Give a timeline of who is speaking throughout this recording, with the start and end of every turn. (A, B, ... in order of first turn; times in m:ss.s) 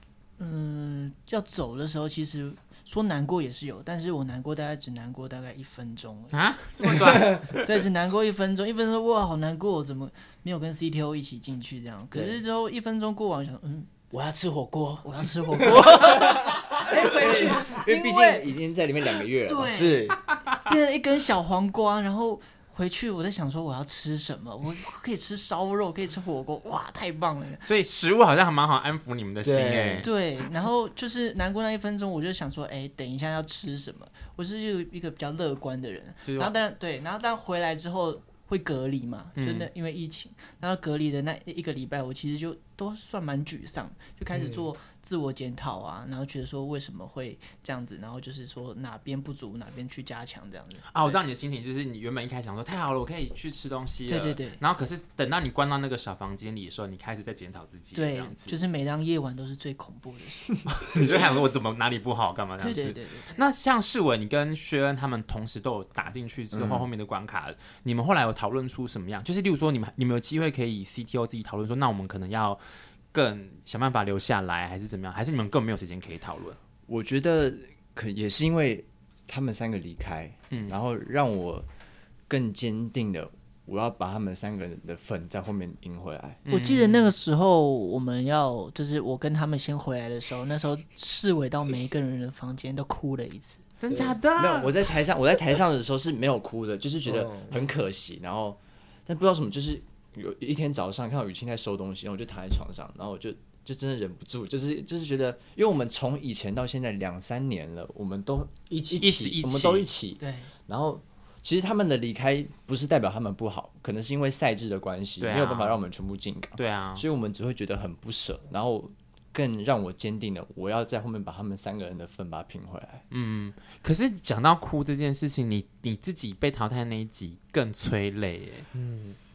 0:00.4-0:06.4 A
0:06.3-0:07.7 B
0:07.1-0:13.9 A
0:12.1-0:12.4 C
0:14.1-0:16.2 C
0:15.0-0:18.5 A
0:16.9-0:19.8 D
0:19.4-0:27.6 A
0:19.6-0:20.2 C
0:27.6-0:30.1 B
0:29.4-0:30.1 C
0:30.0-0:51.1 A
0:36.2-0:36.5 B
0:39.4-0:39.7 B
0:44.3-0:44.7 C
0:50.9-0:58.6 B
0:54.1-0:54.6 A
0:57.9-1:00.6 A
1:00.7-1:12.6 B
1:02.6-1:03.3 A
1:06.5-1:06.9 D
1:13.1-1:16.6 B
1:16.9-1:21.7 D
1:20.5-1:20.8 B
1:22.3-1:26.4 D
1:26.5-1:27.1 B
1:26.5-1:33.6 A
1:33.8-1:34.8 B
1:33.9-1:34.2 C
1:34.4-2:03.0 D
1:37.0-1:37.6 C
1:48.7-1:49.1 C
1:49.0-1:49.9 B
1:50.2-1:50.5 A
1:55.2-1:55.8 B
1:56.6-1:57.0 B
2:03.1-2:08.7 B
2:08.7-2:09.2 C